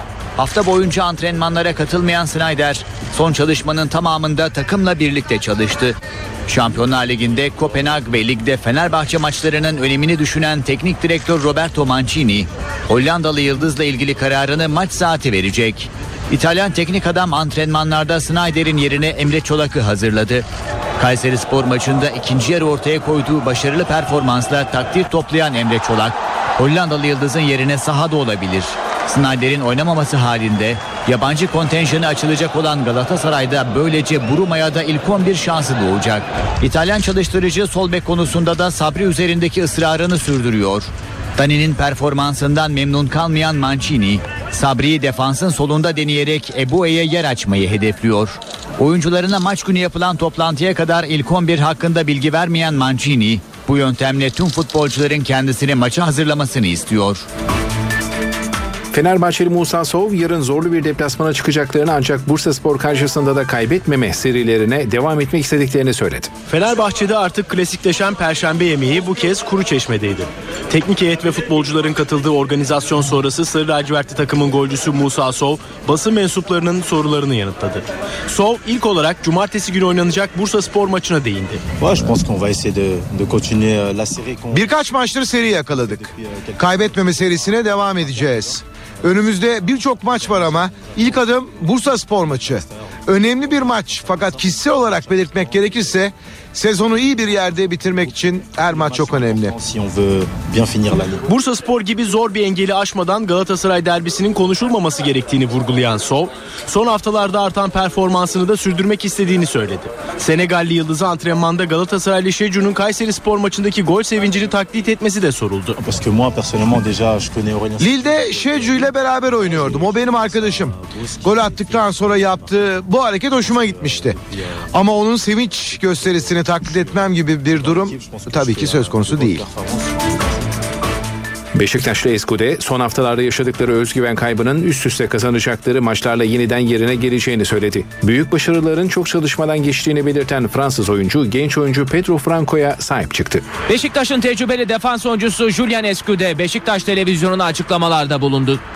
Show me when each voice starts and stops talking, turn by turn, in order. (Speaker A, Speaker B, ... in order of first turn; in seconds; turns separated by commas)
Speaker A: 0.4-6.0, Speaker A: 6.5-20.4, Speaker A: 21.0-57.3, Speaker B: 58.9-66.4, Speaker C: 66.5-81.6, Speaker D: 81.9-101.2, Speaker C: 101.2-115.8, Speaker D: 115.9-124.2, Speaker D: 124.7-129.7, Speaker B: 131.6-143.4, Speaker E: 143.7-148.6